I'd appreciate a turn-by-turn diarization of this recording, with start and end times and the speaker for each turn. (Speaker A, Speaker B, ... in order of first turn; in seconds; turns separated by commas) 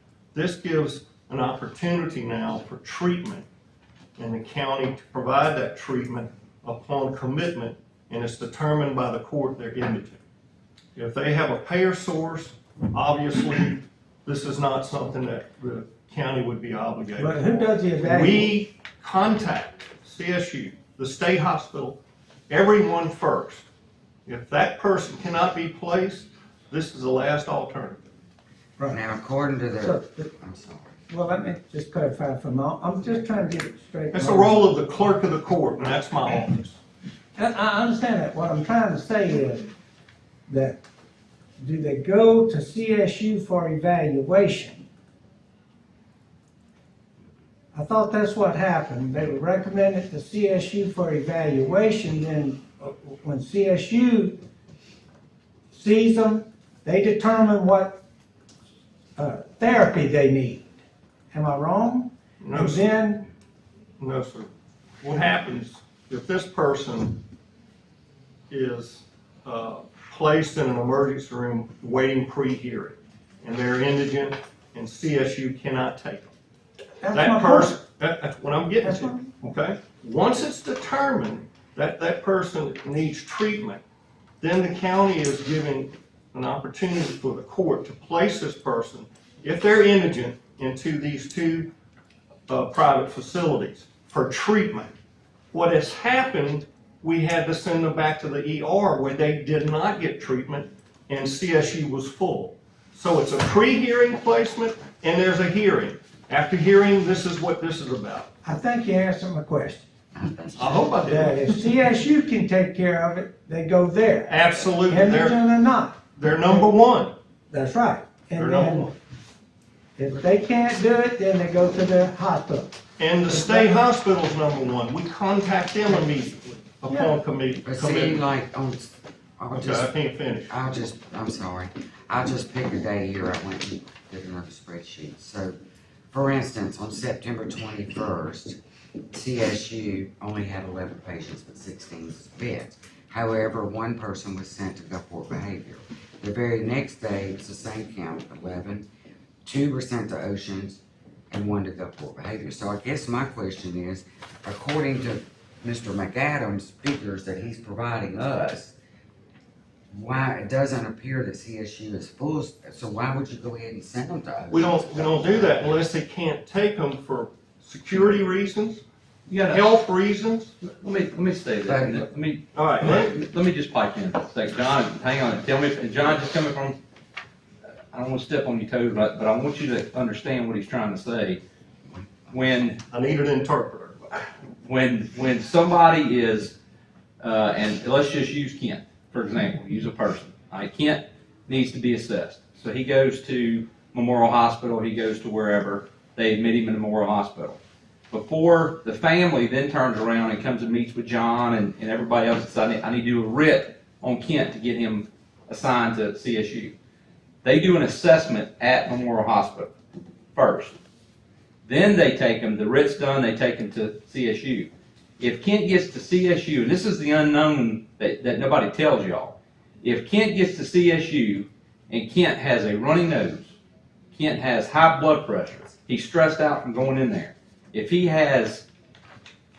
Speaker A: 0.3-3.5, Speaker A: 4.2-10.2, Speaker A: 10.9-23.6, Speaker B: 17.2-18.6, Speaker A: 24.2-28.0, Speaker C: 28.9-31.0, Speaker B: 29.8-30.3, Speaker B: 31.1-34.7, Speaker A: 34.1-36.8, Speaker B: 37.4-39.7, Speaker B: 40.5-40.8, Speaker B: 41.6-44.8, Speaker B: 47.7-54.4, Speaker B: 55.7-58.0, Speaker B: 59.2-60.7, Speaker B: 61.3-63.2, Speaker A: 62.4-62.9, Speaker A: 64.0-64.5, Speaker A: 65.0-67.2, Speaker A: 68.5-76.3, Speaker B: 77.0-77.8, Speaker A: 77.1-83.8, Speaker B: 78.8-79.3, Speaker A: 84.4-91.7, Speaker A: 92.5-94.9, Speaker A: 95.5-108.3, Speaker B: 108.4-109.8, Speaker C: 110.1-110.9, Speaker A: 110.6-111.6, Speaker B: 110.9-116.0, Speaker A: 114.3-115.5, Speaker A: 116.1-117.1, Speaker B: 117.5-118.9, Speaker A: 118.3-119.0, Speaker B: 120.0-122.7, Speaker A: 123.0-128.2, Speaker B: 123.3-123.7, Speaker C: 127.6-129.9, Speaker A: 129.5-130.5, Speaker C: 130.5-135.6, Speaker C: 136.1-138.6, Speaker C: 139.1-148.8, Speaker C: 149.4-158.7, Speaker C: 159.9-165.8, Speaker A: 164.5-168.8, Speaker D: 169.3-169.8, Speaker A: 169.5-170.5, Speaker D: 170.6-176.8, Speaker C: 171.7-172.0, Speaker A: 172.5-173.1, Speaker D: 177.9-181.4, Speaker C: 181.9-182.4, Speaker D: 182.3-182.8, Speaker A: 182.9-184.2, Speaker D: 184.6-186.6, Speaker D: 187.2-197.6, Speaker D: 198.1-206.7, Speaker D: 207.4-209.7, Speaker D: 210.3-210.7, Speaker D: 211.6-223.5, Speaker D: 224.1-228.6